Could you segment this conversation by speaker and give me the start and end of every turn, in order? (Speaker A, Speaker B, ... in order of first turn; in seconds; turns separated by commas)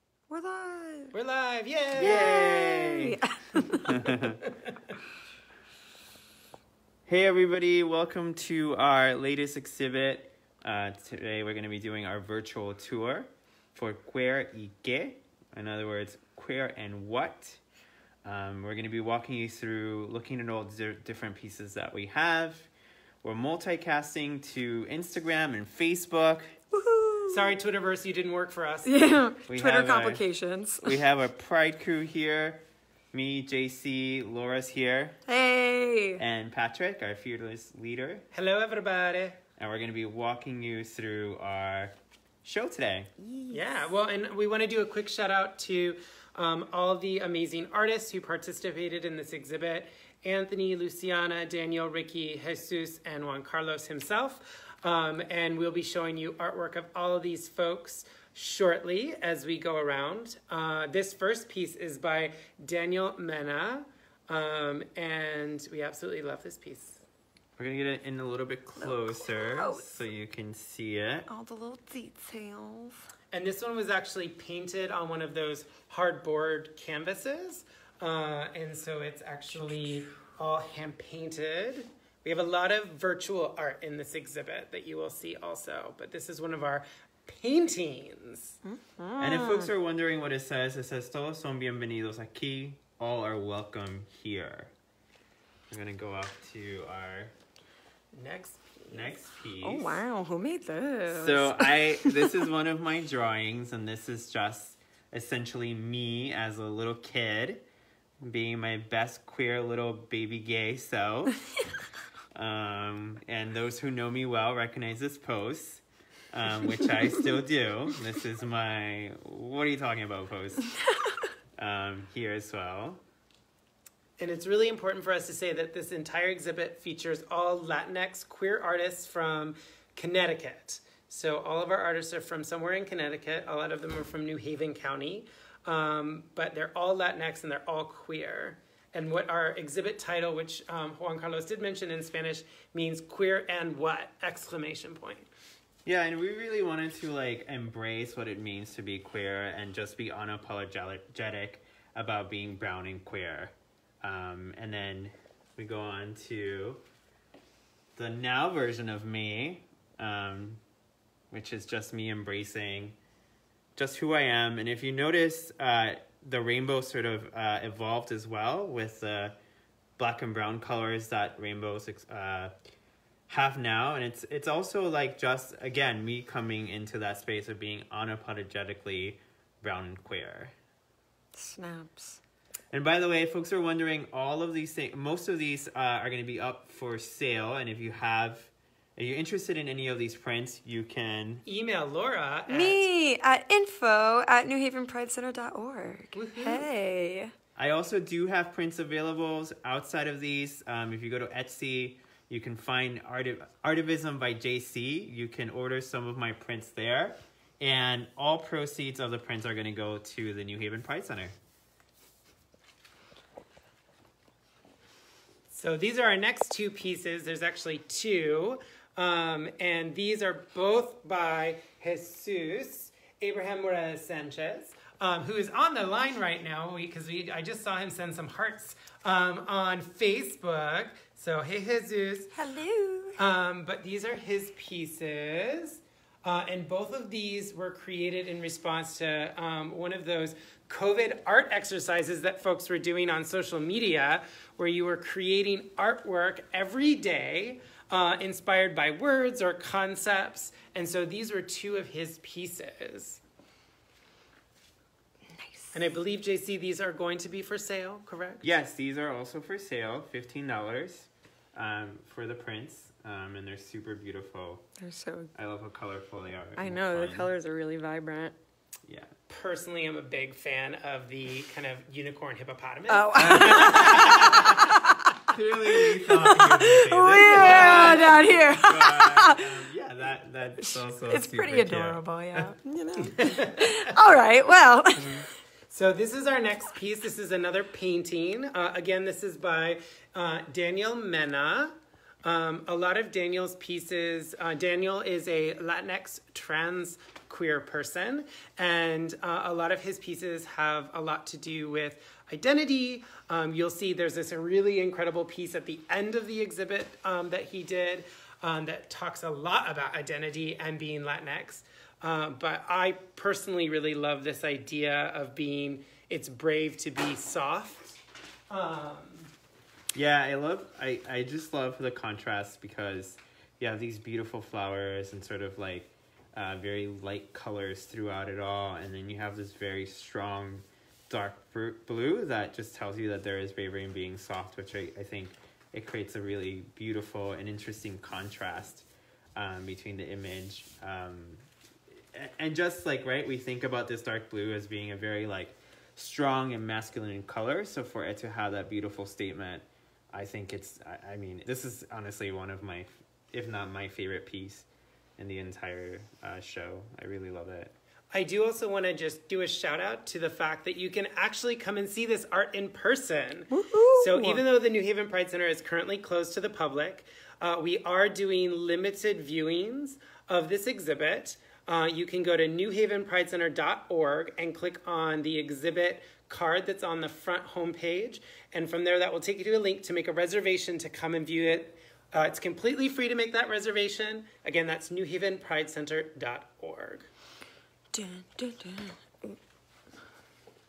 Speaker A: 0.3-1.1, Speaker B: 1.1-2.6, Speaker C: 2.0-3.1, Speaker A: 2.0-4.1, Speaker B: 3.7-4.9, Speaker C: 3.9-4.4, Speaker C: 7.0-17.6, Speaker C: 18.2-22.7, Speaker C: 23.2-26.6, Speaker A: 26.7-27.6, Speaker B: 27.3-29.0, Speaker A: 28.9-31.0, Speaker C: 29.5-30.2, Speaker C: 30.8-35.2, Speaker A: 35.3-36.2, Speaker C: 36.2-38.2, Speaker B: 38.3-39.4, Speaker C: 39.6-43.1, Speaker A: 43.2-43.9, Speaker B: 43.5-67.0, Speaker C: 67.6-71.3, Speaker A: 68.8-69.9, Speaker A: 71.3-73.1, Speaker B: 73.3-88.6, Speaker A: 88.6-89.7, Speaker C: 89.2-94.7, Speaker C: 95.7-97.3, Speaker B: 98.1-99.1, Speaker C: 98.9-100.0, Speaker A: 99.6-102.2, Speaker C: 101.1-107.6, Speaker C: 108.2-111.4, Speaker C: 112.3-120.7, Speaker C: 121.6-123.0, Speaker B: 124.2-145.3, Speaker C: 145.8-156.8, Speaker C: 157.9-160.6, Speaker C: 161.3-163.0, Speaker C: 163.8-169.4, Speaker C: 170.0-172.5, Speaker C: 173.3-180.5, Speaker A: 181.3-182.2, Speaker C: 182.7-191.4, Speaker B: 191.4-192.8, Speaker A: 192.5-197.3, Speaker B: 196.1-196.7, Speaker C: 197.6-211.3, Speaker B: 215.5-232.3, Speaker A: 232.3-233.2, Speaker B: 233.2-253.2, Speaker A: 255.4-255.7, Speaker B: 255.7-258.5, Speaker C: 258.4-264.7, Speaker A: 264.8-265.3, Speaker C: 265.3-267.3, Speaker A: 266.6-268.4, Speaker C: 268.9-269.1, Speaker B: 269.3-274.5, Speaker A: 272.9-275.2, Speaker C: 273.2-274.5, Speaker C: 275.3-282.5, Speaker A: 276.0-279.4, Speaker B: 277.2-278.2, Speaker A: 280.6-285.2, Speaker B: 283.1-283.9, Speaker B: 285.7-319.3, Speaker C: 319.9-354.7, Speaker C: 355.2-357.7, Speaker B: 358.1-387.1, Speaker A: 363.5-364.4, Speaker A: 387.9-389.4